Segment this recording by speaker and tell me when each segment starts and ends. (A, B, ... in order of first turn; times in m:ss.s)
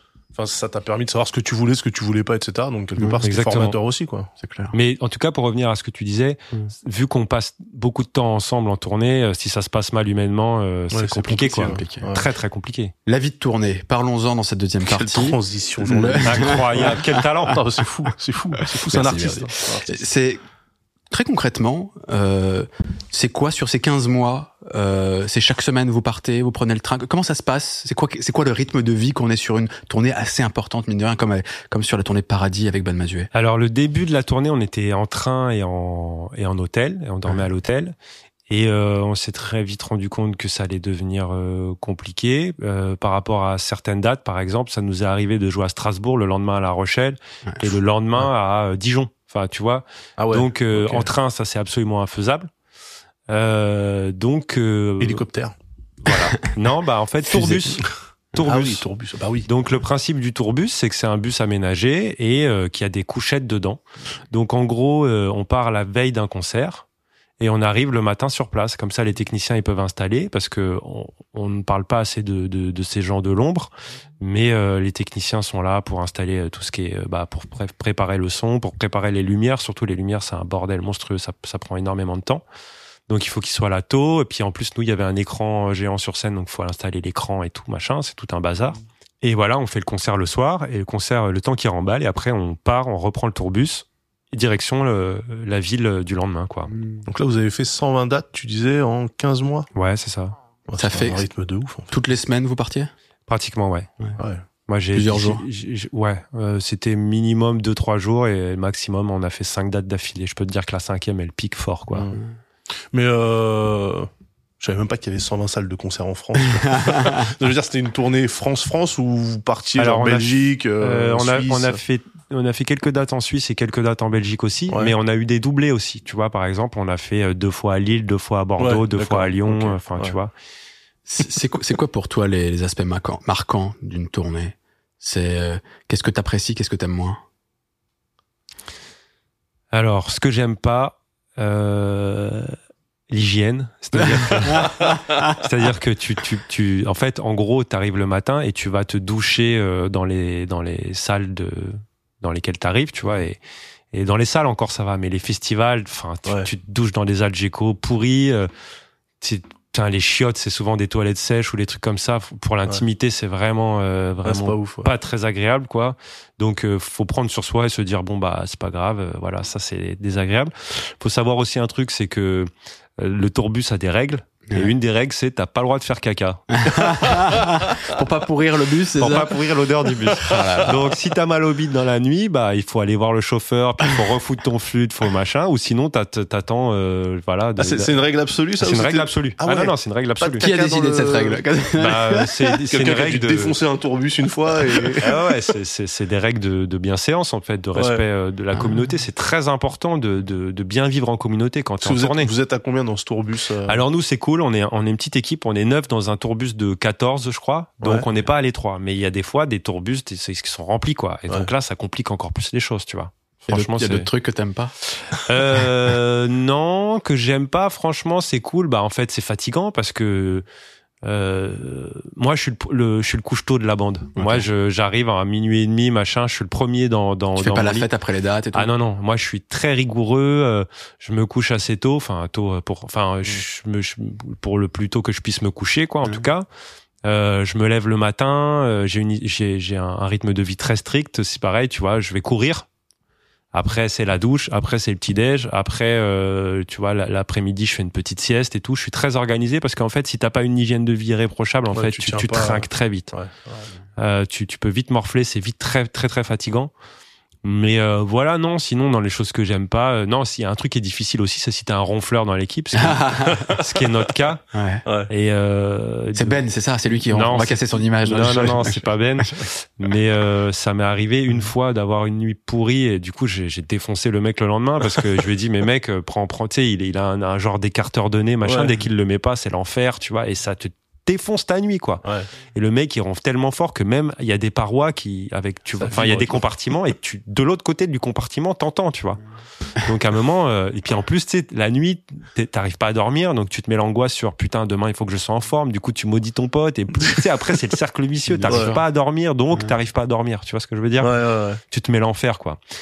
0:00.4-0:04.3 A
0:03.2-0:03.8 B
0:04.4-0:04.8 C
0:04.7-0:12.9 B
0:10.9-0:12.3 A
0:11.6-0:12.0 C
0:13.1-0:17.0 C
0:14.8-0:19.9 A
0:16.3-0:17.6 B
0:18.7-0:20.4 C
0:21.1-0:33.3 C
0:33.3-0:38.0 B
0:38.5-0:52.5 B
0:50.2-0:51.1 A
0:53.3-0:55.2 B
0:55.0-0:55.6 A
0:56.0-0:58.8 B
0:57.3-0:59.5 A
0:59.5-1:06.8 B
1:07.4-1:22.4 B
1:23.1-1:36.7 B
1:36.7-1:37.0 C
1:37.1-1:39.7 A
1:39.8-1:40.4 B
1:40.7-1:41.9 A
1:40.8-1:41.2 C
1:41.9-1:42.9 C
1:43.3-1:43.9 B
1:44.7-1:52.1 B
1:44.9-1:45.4 C
1:52.9-1:54.1 A
1:54.6-2:01.8 A
1:59.8-2:10.3 B
2:08.6-2:10.2 A
2:11.1-2:17.2 C
2:19.7-2:22.6 B
2:23.1-2:33.4 B
2:24.1-2:25.3 C
2:33.9-2:38.5 B
2:39.2-2:57.1 B
2:44.2-2:44.9 A
2:56.5-2:59.4 C
2:57.3-2:57.6 A
2:59.0-3:08.0 B
3:00.2-3:00.8 C
3:07.6-3:11.4 A
3:08.6-3:10.5 B
3:10.4-3:12.5 C
3:11.8-3:13.6 B
3:12.7-3:15.2 A
3:15.0-3:22.3 B
3:17.8-3:18.0 A
3:18.5-3:18.8 C
3:21.8-3:23.8 A
3:23.7-3:34.1 B
3:27.8-3:28.1 A
3:33.5-3:34.7 C
3:35.1-3:40.4 B
3:41.0-3:47.9 B
3:44.2-3:44.5 C
3:47.4-3:48.7 C
3:48.5-3:56.5 B
3:57.0-4:02.7 B
4:03.5-4:13.1 B
4:11.7-4:13.7 A
4:14.0-4:16.7 B
4:17.4-4:24.4 B
4:22.8-4:23.4 C
4:23.3-4:23.9 A
4:24.5-4:24.8 C
4:25.1-4:26.4 B
4:26.2-4:29.4 C
4:27.1-4:49.2 B
4:38.4-4:38.8 A
4:42.0-4:42.3 A
4:45.8-4:46.4 A
4:49.8-5:01.2 B
4:58.3-4:58.8 C
4:58.5-4:58.8 A
5:01.0-5:01.6 A
5:01.7-5:02.6 B